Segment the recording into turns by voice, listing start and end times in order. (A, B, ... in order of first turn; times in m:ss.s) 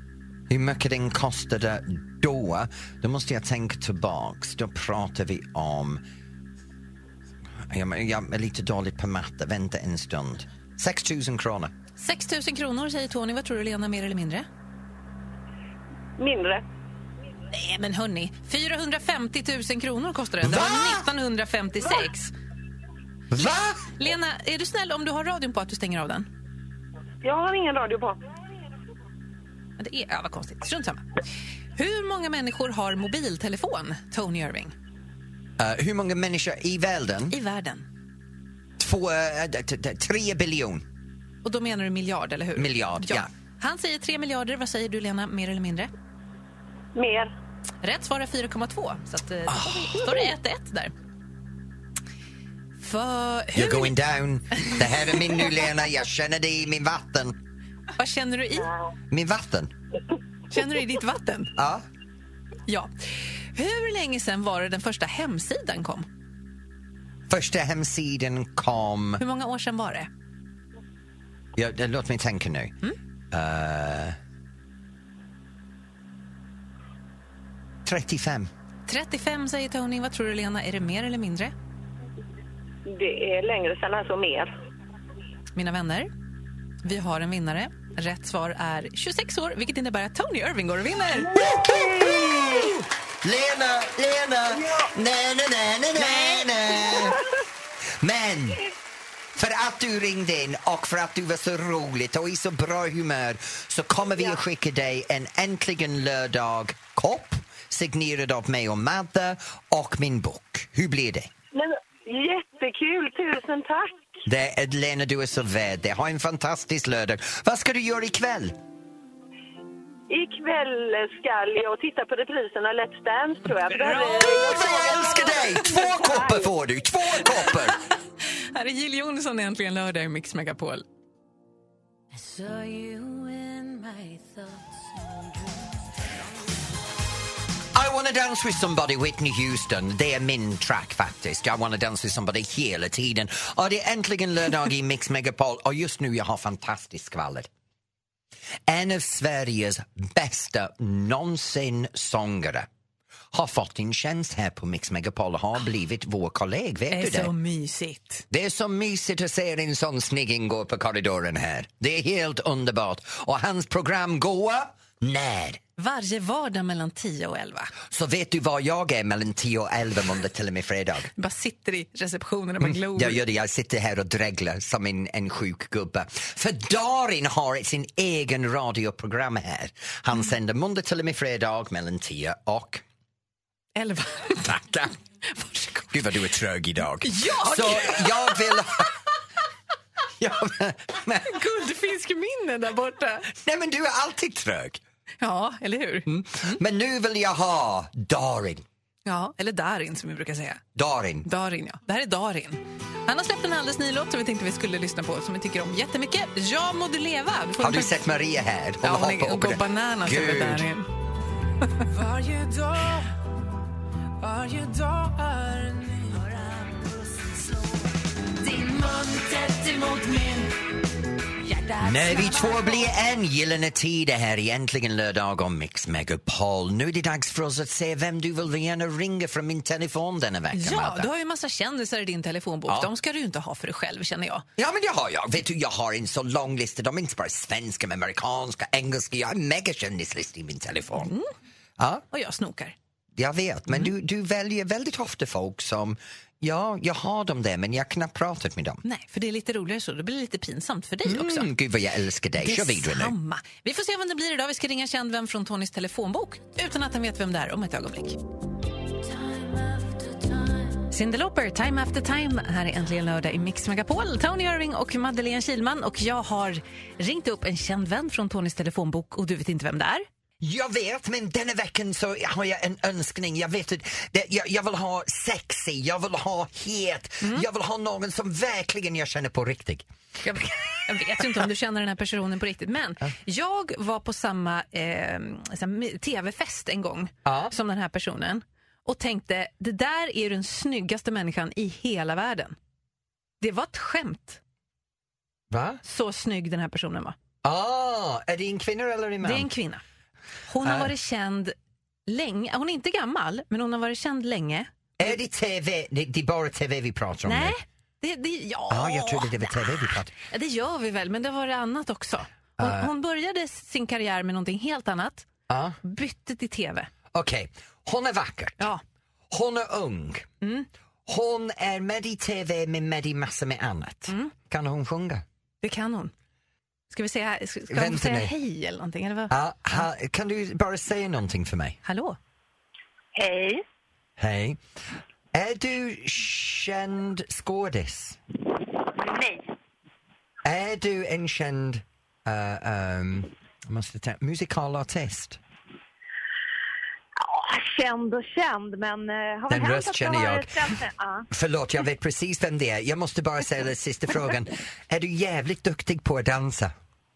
0:00.5-0:06.0 A
0:07.7-0:11.7 A
0:12.0-0:14.5 B
0:16.2-0:16.6 C
0:17.5-0:22.3 B
0:20.4-0:21.1 A
0:23.3-0:23.9 A
0:23.4-0:26.3 B
0:27.2-0:28.2 C
0:29.8-0:31.0 B
0:31.8-0:34.7 B
0:35.6-0:37.3 A
0:37.3-0:37.8 B
0:38.8-0:40.8 A
0:41.4-0:45.9 B
0:42.6-0:43.3 A
0:46.9-0:47.3 C
0:47.8-0:50.9 B
0:49.5-0:49.9 A
0:52.8-0:54.0 B
0:53.5-0:57.4 A
0:58.0-0:58.7 B
0:59.1-0:59.7 A
1:00.5-1:01.5 B
1:01.6-1:01.8 A
1:02.7-1:02.9 B
1:03.5-1:06.1 B
1:07.3-1:09.2 A
1:09.2-1:10.1 B
1:11.6-1:12.7 A
1:13.3-1:14.2 A
1:17.8-1:18.5 A
1:18.9-1:21.5 B
1:22.8-1:24.5 C
1:25.5-1:26.1 B
1:26.8-1:31.4 B
1:31.3-1:32.7 C
1:31.3-1:37.2 A
1:34.6-1:34.9 C
1:36.0-1:36.9 B
1:38.0-1:38.6 A
1:39.3-1:51.3 A
1:51.5-1:54.0 C
1:54.2-1:58.6 A
2:00.1-2:05.6 C
2:03.7-2:04.9 B
2:04.1-2:07.8 A
2:08.5-2:10.8 B
2:12.1-2:15.7 D
2:17.7-2:27.5 A
2:28.7-2:32.7 A
2:33.3-2:37.3 A
2:36.9-2:38.2 B
2:38.3-2:45.6 A
2:45.8-2:47.7 B
2:47.9-2:51.1 A
2:51.2-2:53.2 B
2:52.6-3:02.8 A
3:03.8-3:04.5 B
3:04.4-3:05.0 A
3:05.3-3:05.9 B
3:05.9-3:08.9 A
3:07.0-3:08.5 B
3:10.2-3:11.4 A
3:11.2-3:13.3 B
3:13.3-3:14.8 A
3:15.2-3:16.6 B
3:16.0-3:18.6 A
3:19.0-3:20.6 B
3:20.7-3:21.3 A
3:21.2-3:28.0 B
3:27.6-3:30.7 A
3:28.8-3:30.9 B
3:31.9-3:33.0 D
3:34.2-3:40.6 D
3:41.4-3:42.9 D
3:41.8-3:51.1 A
3:50.5-3:54.4 B
3:54.6-4:01.1 A
4:01.0-4:01.3 B
4:01.8-4:02.0 A
4:02.1-4:02.7 B
4:03.2-4:08.8 A
4:08.8-4:11.5 B
4:11.0-4:13.1 A
4:12.4-4:18.2 B
4:19.0-4:20.8 D
4:20.9-4:30.0 B
4:30.4-4:39.9 A
4:40.2-4:52.6 B
4:47.2-4:47.5 A
4:53.4-4:54.4 B
4:55.5-4:55.8 A
4:55.8-4:57.2 B
4:57.4-4:59.5 A
4:59.2-4:59.8 B
5:00.5-5:01.5 B
5:00.6-5:00.9 A
5:02.1-5:05.1 B
5:05.0-5:07.5 A
5:07.2-5:09.6 B
5:08.7-5:10.1 A
5:10.3-5:15.3 B
5:12.6-5:12.9 A
5:15.5-5:15.8 A
5:15.8-5:16.9 B
5:17.1-5:18.7 A
5:19.3-5:20.3 A
5:20.4-5:20.7 B
5:21.0-5:25.2 A
5:24.1-5:24.3 B
5:25.6-5:26.1 B
5:26.9-5:29.3 B
5:27.7-5:28.3 A
5:29.3-5:31.8 A
5:31.8-5:32.2 B
5:33.1-5:33.6 E
5:34.2-5:34.6 A
5:35.3-5:38.2 A
5:39.0-5:39.5 E
5:40.4-5:45.4 A
5:47.2-5:51.3 E
5:49.5-5:50.8 A
5:51.3-5:56.7 A